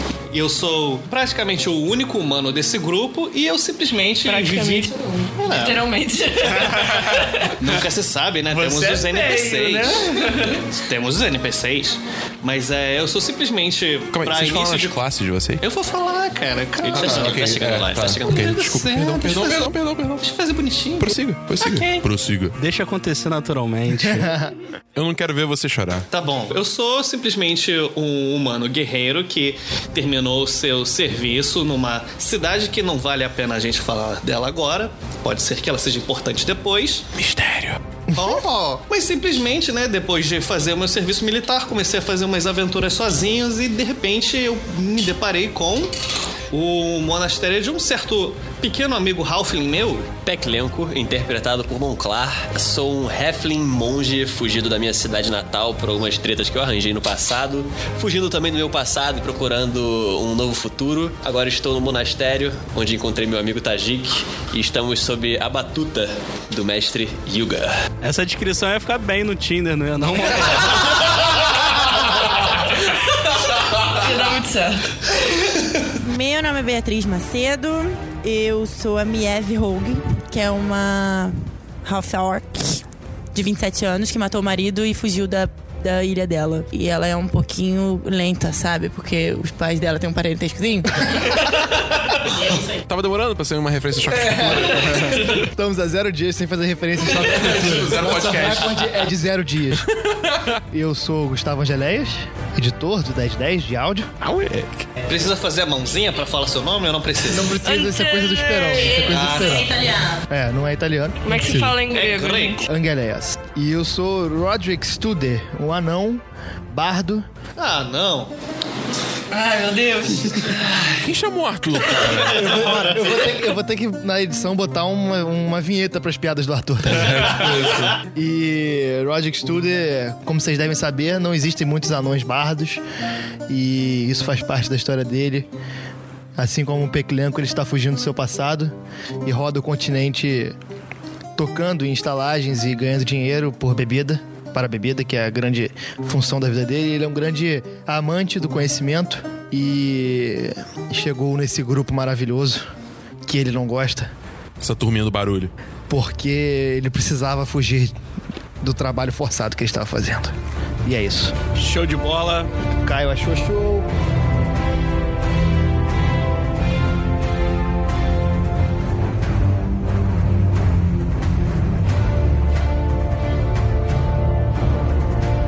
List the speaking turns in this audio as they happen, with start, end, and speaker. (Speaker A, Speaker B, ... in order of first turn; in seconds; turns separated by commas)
Speaker A: 0.3-5.9, Speaker B: 4.2-7.5, Speaker A: 6.4-15.0, Speaker B: 8.8-10.4, Speaker C: 14.1-15.7, Speaker A: 15.6-22.1, Speaker C: 16.9-20.3, Speaker D: 16.9-18.5, Speaker C: 21.0-22.6, Speaker E: 22.6-24.3, Speaker F: 24.1-24.6, Speaker C: 24.9-26.1, Speaker A: 26.1-37.1, Speaker C: 37.1-37.8, Speaker A: 38.1-45.9, Speaker A: 46.5-50.2, Speaker D: 50.2-67.8, Speaker E: 68.0-71.3, Speaker B: 73.9-75.0, Speaker G: 76.0-82.8, Speaker G: 83.3-91.4, Speaker G: 92.4-92.7, Speaker C: 92.7-95.4, Speaker F: 94.2-99.9, Speaker C: 97.0-99.1, Speaker C: 99.7-100.6, Speaker F: 100.7-104.1, Speaker C: 104.2-104.9, Speaker A: 105.0-107.6, Speaker F: 107.3-111.8, Speaker B: 107.6-109.6, Speaker A: 108.9-109.9, Speaker B: 111.2-112.7, Speaker A: 111.9-112.7, Speaker F: 112.6-117.3, Speaker A: 117.6-118.3, Speaker A: 119.3-121.0, Speaker C: 121.0-122.6, Speaker A: 122.0-123.4, Speaker F: 122.2-132.8, Speaker C: 126.9-128.0, Speaker F: 133.5-135.5, Speaker F: 136.4-138.7, Speaker F: 139.2-140.6, Speaker F: 141.4-152.7, Speaker F: 153.2-154.1, Speaker C: 154.6-155.5, Speaker F: 155.9-158.0, Speaker F: 158.6-161.4, Speaker C: 161.6-162.5, Speaker E: 161.7-162.3, Speaker F: 162.8-163.9